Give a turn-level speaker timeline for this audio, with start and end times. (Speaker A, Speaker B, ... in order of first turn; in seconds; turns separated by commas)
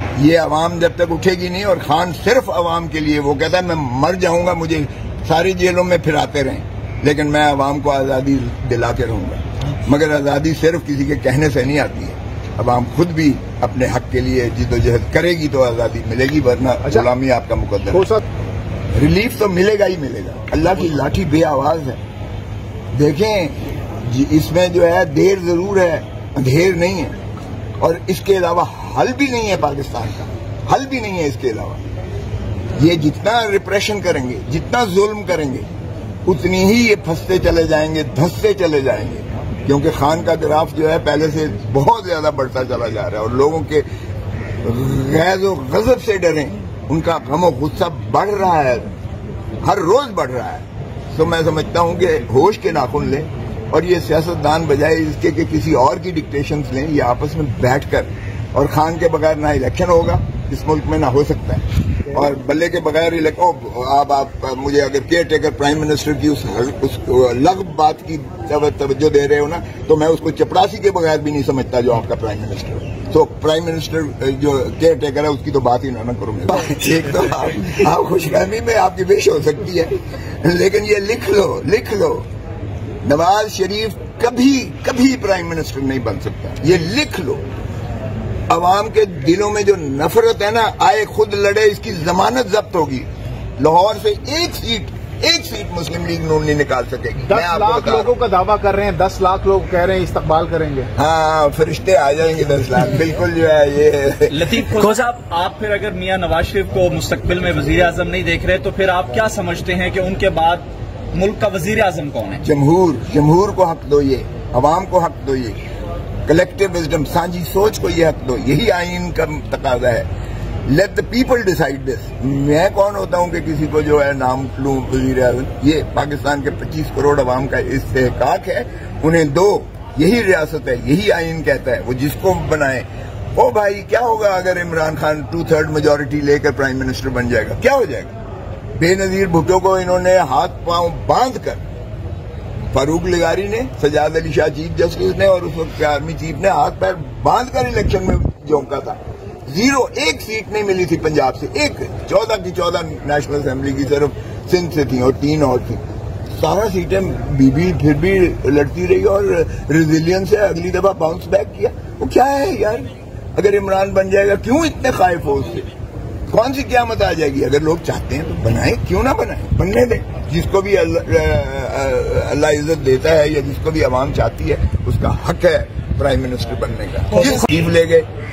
Speaker A: 0.2-18.1, Speaker B: 17.9-18.2, Speaker A: 18.9-22.0, Speaker A: 22.9-27.2, Speaker A: 27.8-31.8, Speaker A: 32.7-35.6, Speaker A: 36.2-43.9, Speaker A: 44.6-48.9, Speaker A: 49.6-82.3, Speaker A: 83.0-87.4, Speaker A: 88.5-98.1, Speaker B: 97.2-100.9, Speaker A: 101.0-104.8, Speaker C: 104.3-112.4, Speaker A: 112.4-115.6, Speaker A: 116.2-120.1, Speaker A: 120.7-138.1, Speaker A: 138.8-141.6, Speaker A: 142.7-165.7, Speaker A: 166.3-178.1